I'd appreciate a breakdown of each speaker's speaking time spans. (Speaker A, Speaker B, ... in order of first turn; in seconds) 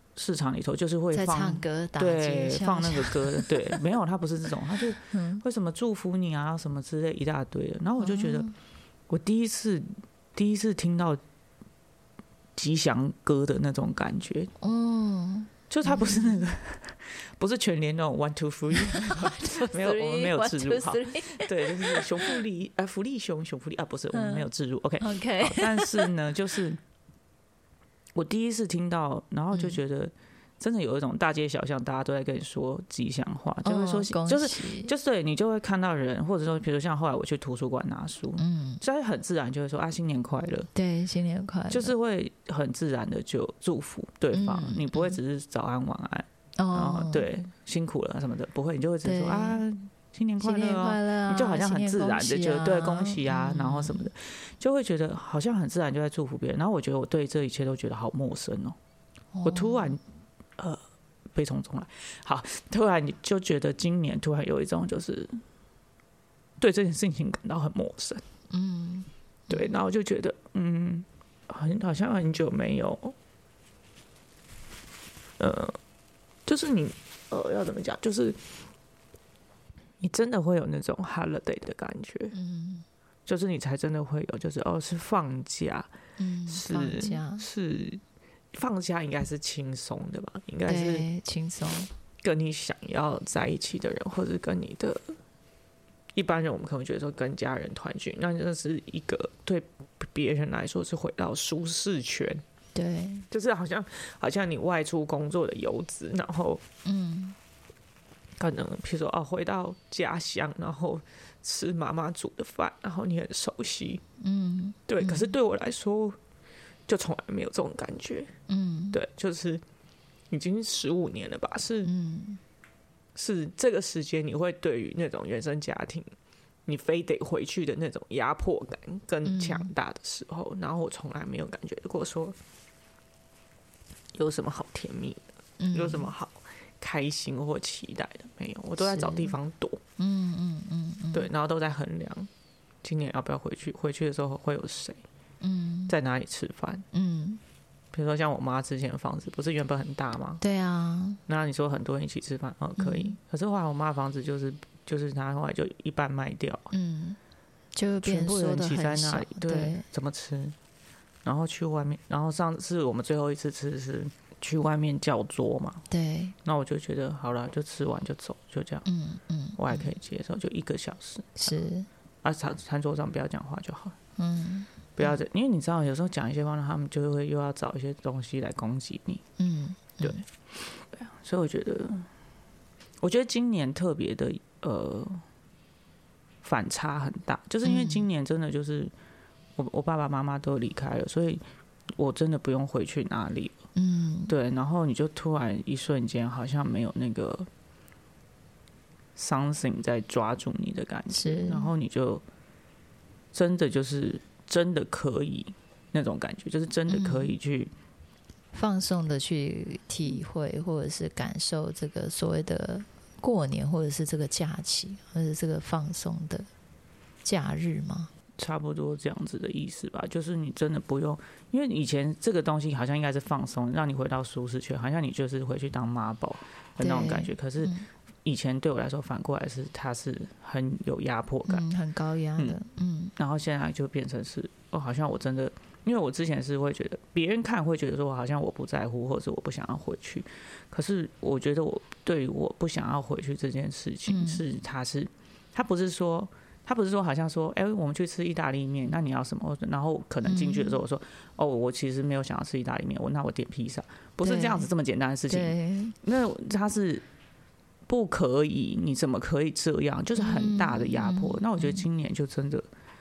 Speaker A: 0.1-8.5, 9.1-11.2, 12.6-14.5, 15.7-26.8, 28.1-40.7, 41.7-58.8, 59.4-60.0, 61.3-65.4, 66.6-68.2, 69.5-73.2, 75.4-75.8, 76.5-78.5, 80.0-82.3, 83.2-85.9, 86.5-88.0, 88.5-91.1, 92.2-95.2, 96.1-102.4, 103.3-106.6, 108.4-114.0, 114.9-116.2, 116.9-118.3, 118.9-119.6, 120.3-121.9, 123.1-126.1, 126.7-132.4, 134.1-139.8, 141.1-142.3, 142.8-145.0, 145.9-146.8, 147.9-150.4, 151.3-156.7, 158.0-160.6, 161.2-165.8, 166.4-168.9, 169.6-171.6, 172.2-173.9, 175.0-179.2, 180.0-182.1, 183.0-185.2, 186.4-188.9, 189.6-191.4, 192.0-193.6, 194.3-197.5, 199.2-202.2, 203.3-207.7, 218.4-227.7, 228.2-231.7, 233.2-257.0, 257.9-262.6
Speaker B: 1.1-3.8, 5.1-5.4, 8.0-8.5, 14.6-16.4, 18.7-22.4, 24.1-24.4, 25.0-26.1, 29.5-29.8, 33.6-34.9, 38.4-38.8, 40.7-41.9, 44.3-45.2, 46.6-47.3, 49.0-49.6, 50.4-54.1, 59.3-60.0, 68.5-69.7, 82.3-82.8, 86.2-87.4, 90.7-91.9, 102.7-103.2, 106.8-107.3, 114.2-115.3, 118.5-119.0, 121.8-122.4, 129.2-129.7, 135.6-136.1, 138.8-139.3, 140.0-141.3, 145.4-145.9, 146.9-147.4, 150.4-151.2, 152.8-153.2, 156.7-157.2, 157.7-159.8, 165.9-166.3, 168.8-169.9, 171.4-171.9, 174.2-175.2, 179.4-180.2, 187.6-188.1, 193.8-194.3, 201.1-201.7, 206.9-207.3, 208.5-216.5, 217.2-218.1, 226.8-227.9, 231.5-233.1, 244.1-244.4, 250.2-250.8, 254.2-254.7, 255.3-256.0, 260.1-261.8